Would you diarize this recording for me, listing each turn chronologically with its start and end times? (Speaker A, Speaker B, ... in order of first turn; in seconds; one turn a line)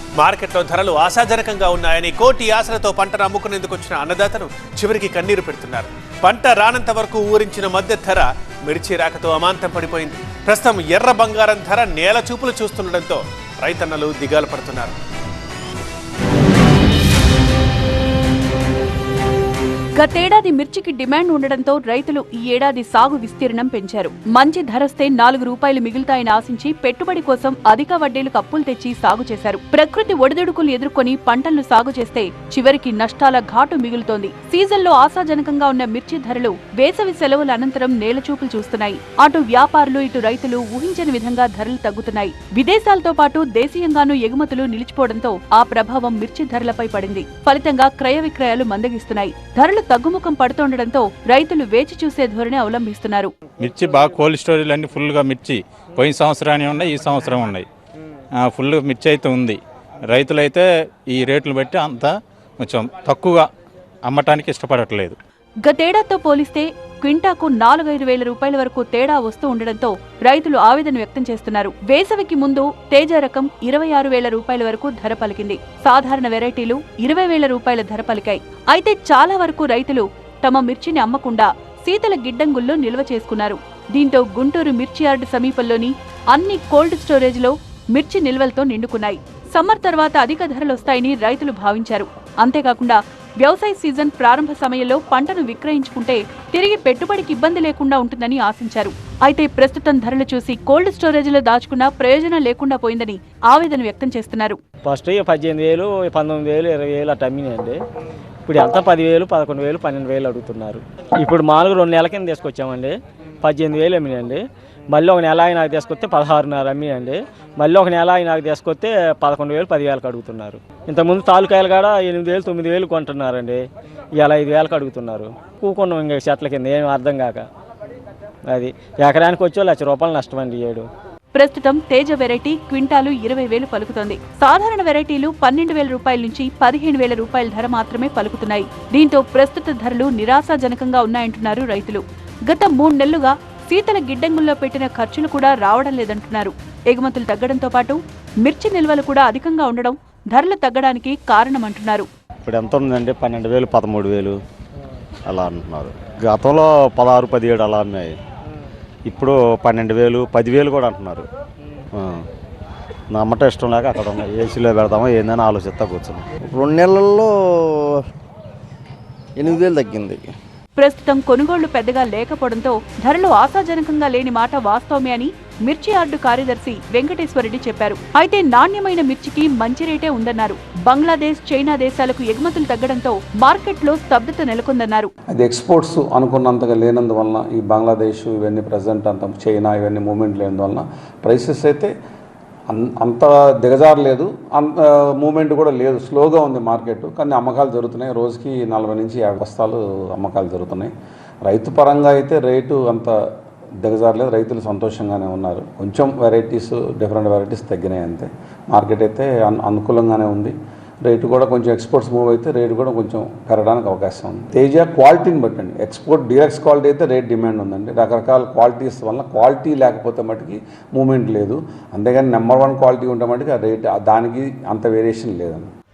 Speaker A: 0.2-14.9
Speaker B: 19.9-53.3
Speaker C: 53.6-57.6
Speaker C: 58.4-59.6
Speaker C: 60.1-63.5
Speaker C: 64.0-65.2
Speaker B: 65.6-104.6
Speaker D: 104.8-107.8
Speaker D: 108.5-123.6
Speaker D: 124.2-127.4
Speaker D: 128.5-130.9
Speaker B: 131.3-152.1
Speaker E: 152.4-154.4
Speaker E: 155.3-158.2
Speaker E: 159.0-161.2
Speaker E: 161.9-162.2
Speaker E: 163.1-166.3
Speaker F: 166.4-168.0
Speaker F: 169.4-170.3
Speaker B: 170.8-185.1
Speaker G: 185.3-191.9
Speaker G: 192.7-200.9
Speaker G: 201.4-203.2
Speaker G: 203.8-225.7